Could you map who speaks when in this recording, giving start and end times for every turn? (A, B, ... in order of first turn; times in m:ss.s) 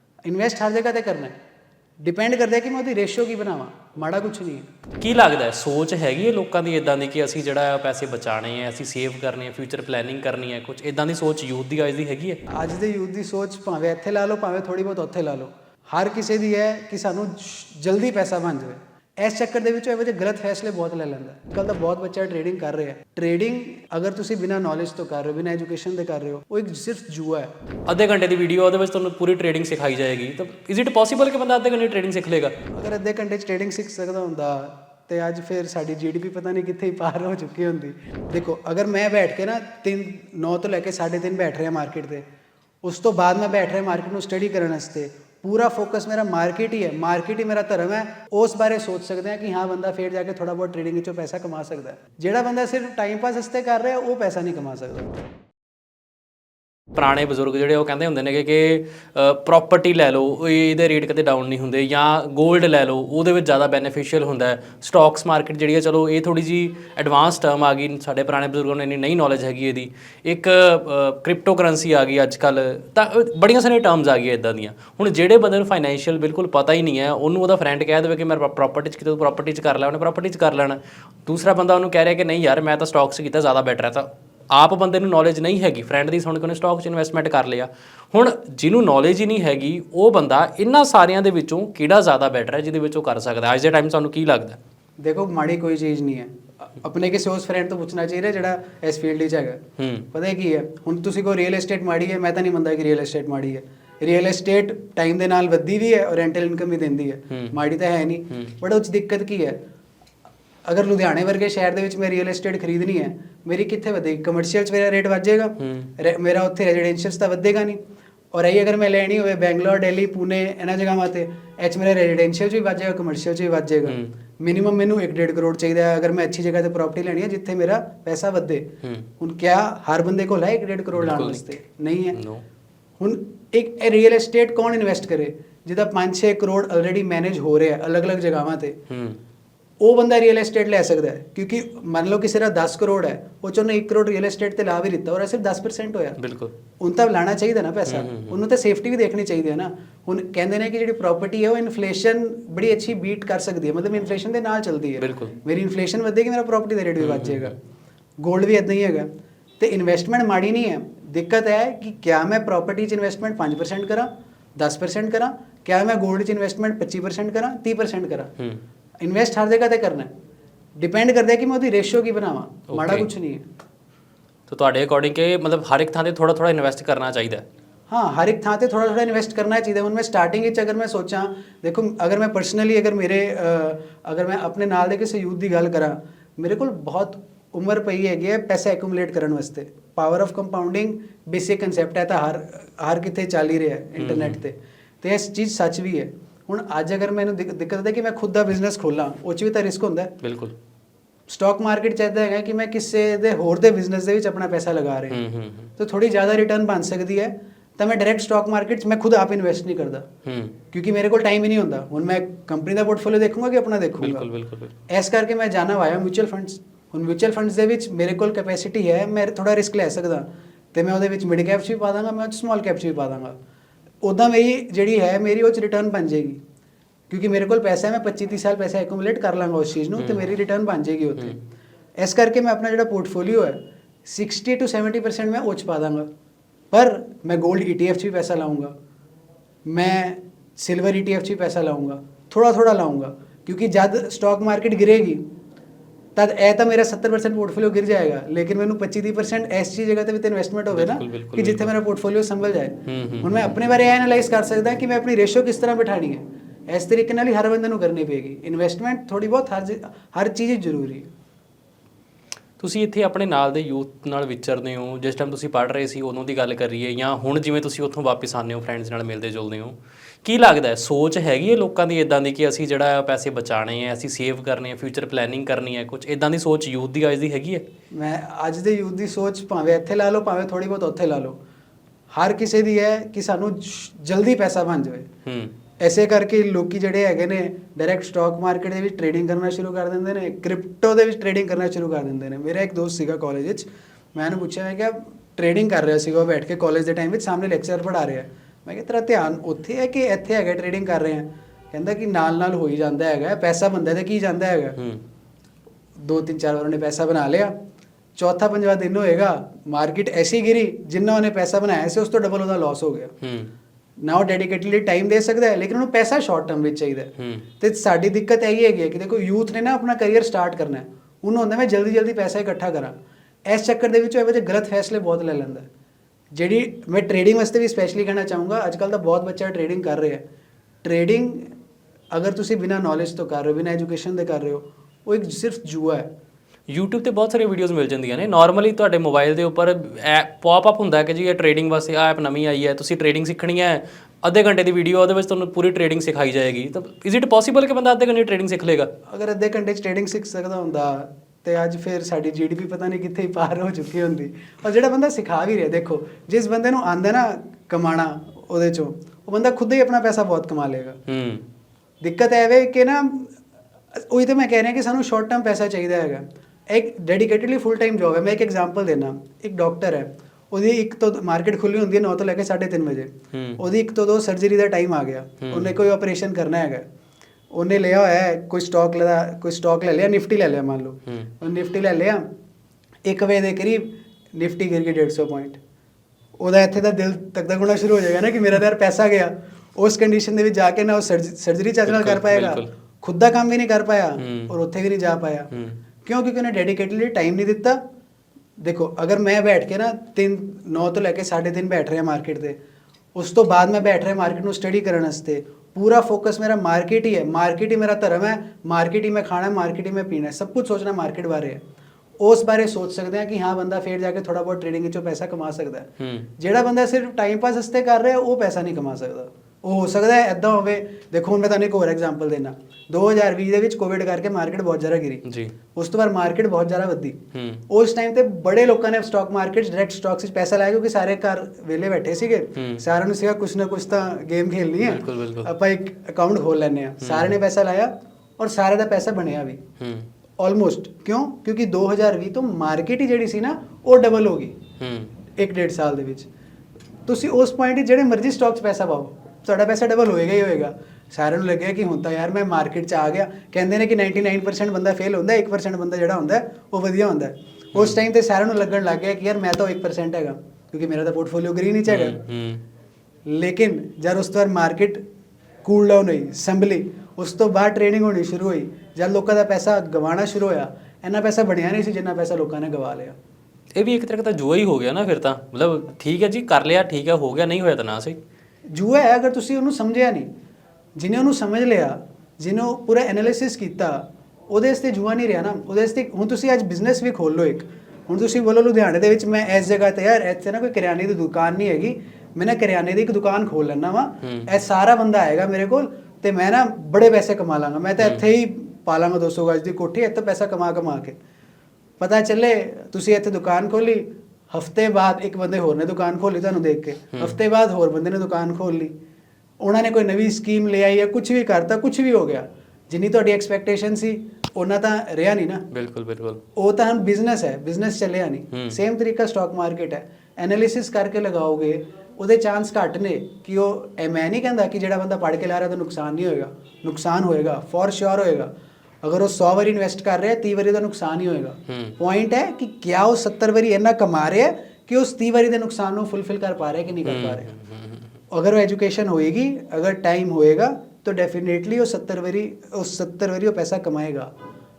0:00.2-0:01.3 A
0:02.0-0:04.7 A
0:05.0-0:12.4 B
0:12.5-0:27.5 A
0:27.9-0:32.5 B
0:32.7-0:42.2 A
0:42.8-0:55.3 A
0:56.9-1:34.6 B
1:35.0-1:39.6 A
1:39.8-1:40.1 B
1:40.1-1:49.6 A
1:50.6-1:57.8 A
1:55.6-1:55.9 B
1:58.3-2:08.7 A
2:03.8-2:04.1 B
2:09.2-2:12.2 A
2:10.9-2:11.4 B
2:12.1-2:12.4 B
2:13.0-2:18.8 A
2:18.9-2:19.2 B
2:19.8-2:26.2 A
2:26.2-2:26.5 B
2:26.8-2:37.5 A
2:27.9-2:28.4 B
2:35.0-2:35.3 B
2:37.0-2:37.5 B
2:38.2-2:39.1 A
2:39.6-2:48.3 A
2:49.0-2:50.1 A
2:50.8-2:53.4 A
2:52.7-2:53.1 B
2:54.5-2:57.4 B
2:57.9-3:20.1 A
3:14.0-3:14.4 B
3:20.2-3:20.5 B
3:21.3-3:25.2 A
3:25.1-3:25.7 B
3:25.8-3:30.0 A
3:30.2-3:30.5 B
3:30.7-3:34.3 A
3:34.0-3:34.7 B
3:34.9-3:43.3 A
3:44.0-3:46.4 A
3:47.1-3:51.4 A
3:50.0-3:50.3 B
3:52.0-3:56.1 A
3:56.7-3:58.7 A
3:59.6-4:05.2 A
4:06.1-4:21.1 A
4:10.7-4:11.7 B
4:12.8-4:13.5 B
4:22.6-4:37.6 B
4:37.9-4:41.4 A
4:42.1-4:45.1 A
4:45.2-4:45.5 B
4:45.8-5:04.8 A
5:06.0-5:07.5 A
5:08.2-5:13.1 A
5:13.2-5:13.5 B
5:14.0-5:23.0 A
5:17.2-5:17.4 B
5:23.5-5:25.7 A
5:26.3-5:30.2 A
5:30.8-5:31.5 A
5:32.1-5:36.1 A
5:36.7-5:48.9 B
5:49.1-6:01.0 A
6:01.1-6:01.4 B
6:02.0-6:03.3 A
6:03.9-6:16.8 A
6:13.3-6:13.6 B
6:15.4-6:15.8 B
6:17.5-6:22.2 A
6:23.0-6:25.6 A
6:26.4-6:35.5 A
6:31.9-6:32.7 B
6:34.2-6:34.5 B
6:36.0-6:37.8 A
6:38.6-6:42.6 A
6:43.1-6:51.6 A
6:52.2-7:05.2 A
6:56.0-6:56.3 B
7:05.2-7:05.5 B
7:05.7-7:07.2 A
7:07.3-7:07.6 B
7:07.7-7:19.6 A
7:12.5-7:12.8 B
7:14.8-7:15.5 B
7:17.0-7:17.3 B
7:19.8-7:20.1 B
7:20.4-7:24.6 A
7:24.8-7:25.1 B
7:25.4-7:26.3 A
7:27.1-7:42.2 A
7:41.9-7:42.6 B
7:43.3-7:45.0 A
7:45.6-7:53.2 A
7:53.7-7:58.2 B
7:58.7-8:00.3 A
8:01.0-8:21.2 A
8:14.2-8:14.5 B
8:22.0-8:28.9 A
8:29.6-8:35.6 A
8:35.7-8:36.4 B
8:36.5-8:48.5 A
8:38.5-8:38.8 B
8:49.0-8:57.6 A
8:51.7-8:52.0 B
8:57.0-8:58.1 B
8:58.3-9:04.3 A